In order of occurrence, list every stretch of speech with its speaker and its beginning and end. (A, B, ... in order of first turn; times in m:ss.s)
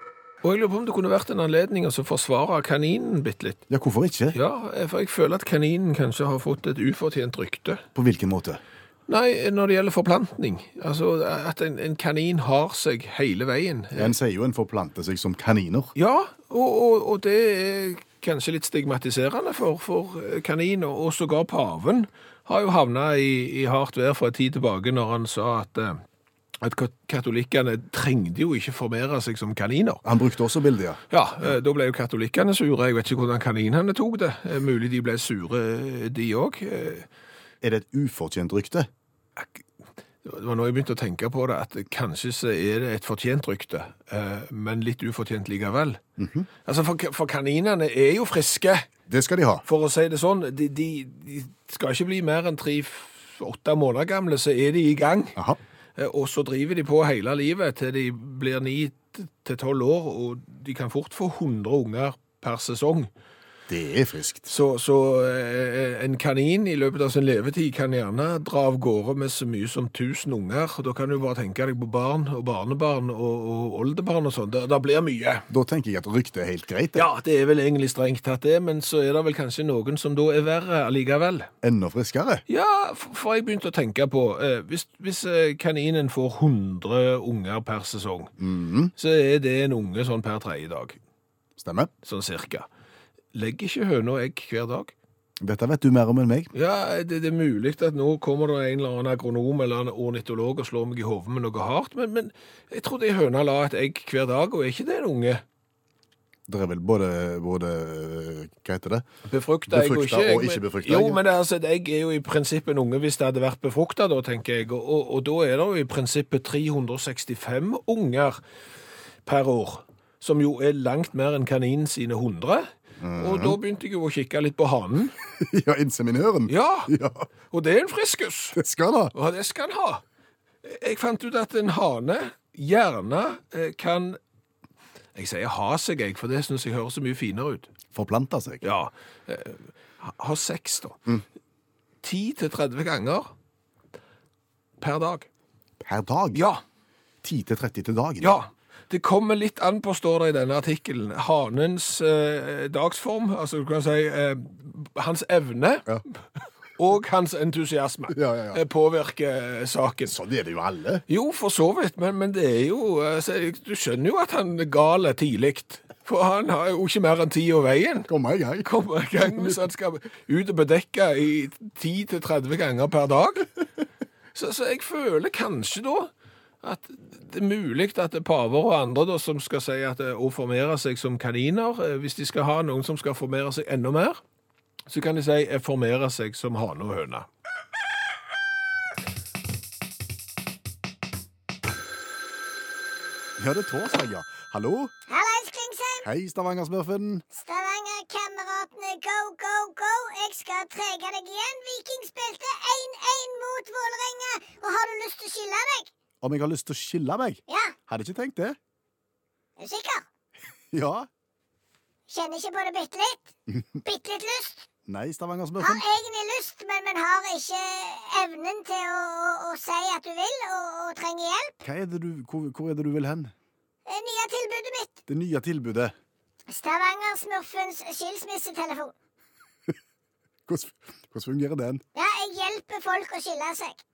0:00.4-0:03.6 A
0:03.7-0:04.4 B
0:04.3-0:07.8 A
0:08.0-0:08.6 B
0:09.1-0:14.2 A
0:13.9-0:15.9 B
0:16.0-0:26.0 A
0:26.6-0:30.0 A
0:30.0-0:31.0 B
0:31.1-0:37.1 A
0:37.6-0:38.9 B
0:39.4-0:39.6 A
0:40.2-0:46.0 A
0:46.2-0:46.5 B
0:46.6-0:48.9 A
0:49.1-0:49.6 B
0:49.7-0:55.4 A
0:56.0-1:03.1 A
1:03.7-1:04.5 B
1:04.5-1:15.5 A
1:15.5-1:17.1 B
1:17.0-1:21.5 A
1:21.6-1:22.4 B
1:22.5-1:28.3 A
1:28.4-1:28.9 B
1:29.0-1:31.0 A
1:31.6-1:31.9 B
1:32.0-1:32.7 A
1:33.3-1:34.9 A
1:35.4-1:36.5 B
1:36.5-1:45.4 A
1:46.5-1:49.1 B
1:49.3-1:58.4 A
1:49.7-1:51.2 B
1:59.2-2:05.2 A
2:03.0-2:03.6 B
2:05.4-2:07.3 B
2:06.5-2:06.9 A
2:07.5-2:08.6 A
2:08.6-2:09.1 B
2:09.1-2:10.0 A
2:10.6-2:14.2 A
2:15.2-2:17.7 A
2:17.9-2:18.6 B
2:18.6-2:21.0 A
2:22.0-2:23.3 A
2:24.8-2:25.3 A
2:25.8-2:26.4 B
2:26.4-2:26.6 A
2:27.2-2:28.4 B
2:28.2-2:36.0 A
2:36.8-2:40.2 A
2:38.1-2:38.6 B
2:40.1-2:41.0 B
2:41.1-2:48.1 A
2:48.1-2:48.7 B
2:48.6-2:53.5 A
2:49.2-2:49.6 B
2:54.3-2:56.1 A
2:56.6-3:04.2 A
3:04.9-3:07.3 A
3:13.4-3:14.9 B
3:15.1-3:16.1 C
3:16.0-3:17.2 B
3:17.3-3:25.9 C
3:26.2-3:28.6 B
3:27.5-3:27.8 C
3:29.6-3:30.1 C
3:30.7-3:31.1 B
3:32.1-3:33.3 C
3:33.8-3:34.7 C
3:34.9-3:35.8 B
3:35.6-3:41.6 C
3:41.6-3:43.3 B
3:43.9-3:45.0 C
3:45.1-3:45.9 B
3:46.5-3:48.9 C
3:50.5-3:51.8 B
3:52.0-3:53.8 C